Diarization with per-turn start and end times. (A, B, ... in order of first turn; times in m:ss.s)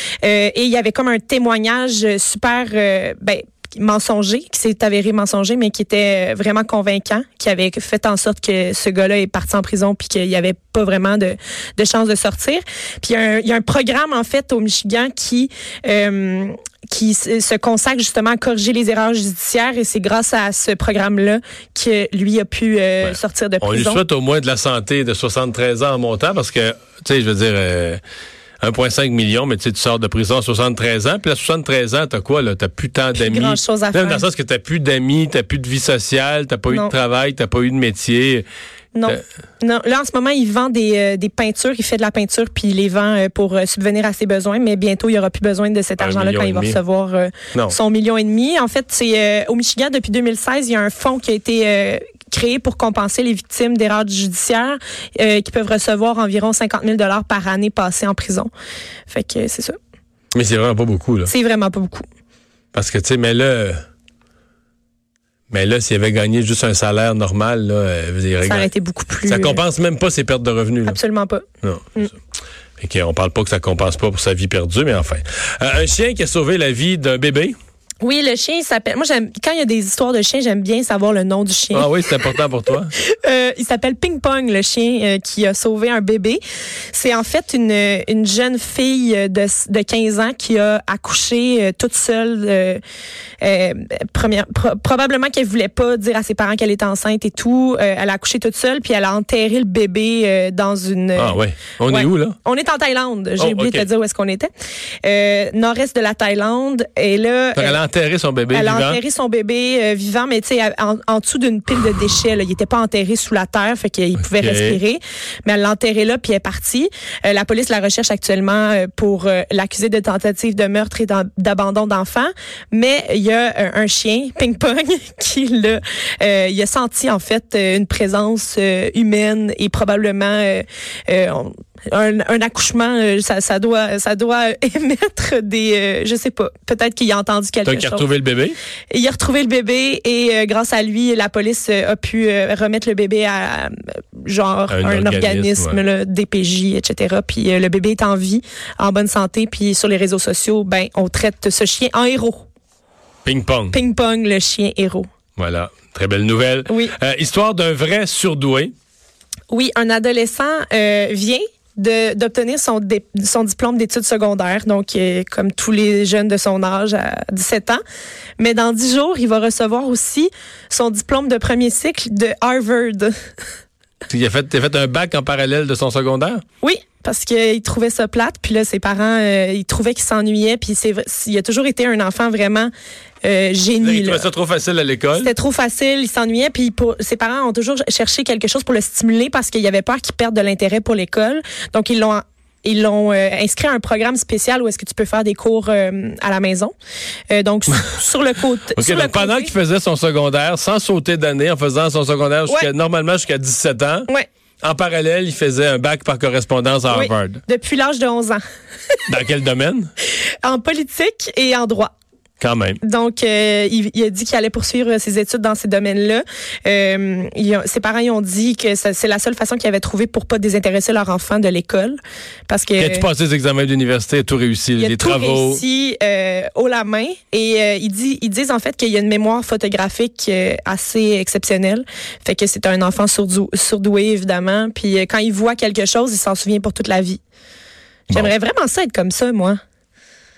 0:00.2-0:24.0 A
0:23.0-0:28.0 B
0:28.6-0:38.5 B
0:33.1-0:34.2 A
0:38.9-0:58.5 A
0:46.0-0:46.8 B
0:59.1-0:59.8 A
1:00.3-1:01.3 B
1:01.3-1:02.0 A
1:02.7-1:03.8 B
1:05.5-1:08.7 B
1:08.4-1:09.6 A
1:09.3-1:11.0 B
1:10.8-1:11.4 A
1:11.6-1:12.0 B
1:12.8-1:17.6 B
1:18.0-1:22.4 A
1:21.7-1:22.9 B
1:22.9-1:26.4 A
1:26.9-1:32.8 A
1:33.4-1:44.5 A
1:41.2-1:42.3 B
1:43.4-1:43.9 B
1:45.0-1:47.8 A
1:47.6-1:49.0 B
1:48.5-2:18.0 A
1:54.2-1:54.8 B
2:17.6-2:18.6 B
2:18.9-2:32.4 A
2:24.7-2:25.8 B
2:33.2-2:33.8 B
2:33.7-2:35.1 A
2:35.4-2:38.7 B
2:36.7-2:36.9 A
2:39.5-2:47.8 A
2:48.4-2:53.1 A
2:54.1-2:56.4 B
2:56.6-3:02.7 A
3:03.2-3:04.3 A
3:03.8-3:05.3 B
3:05.2-3:16.7 A
3:17.3-3:19.5 A
3:18.7-3:24.1 B
3:24.6-3:27.4 B
3:26.9-3:29.0 A
3:29.1-3:29.9 B
3:30.4-3:31.9 A
3:32.4-3:32.8 B
3:32.8-3:43.0 A
3:42.8-3:45.6 B
3:44.8-3:57.2 A
3:58.1-3:59.6 A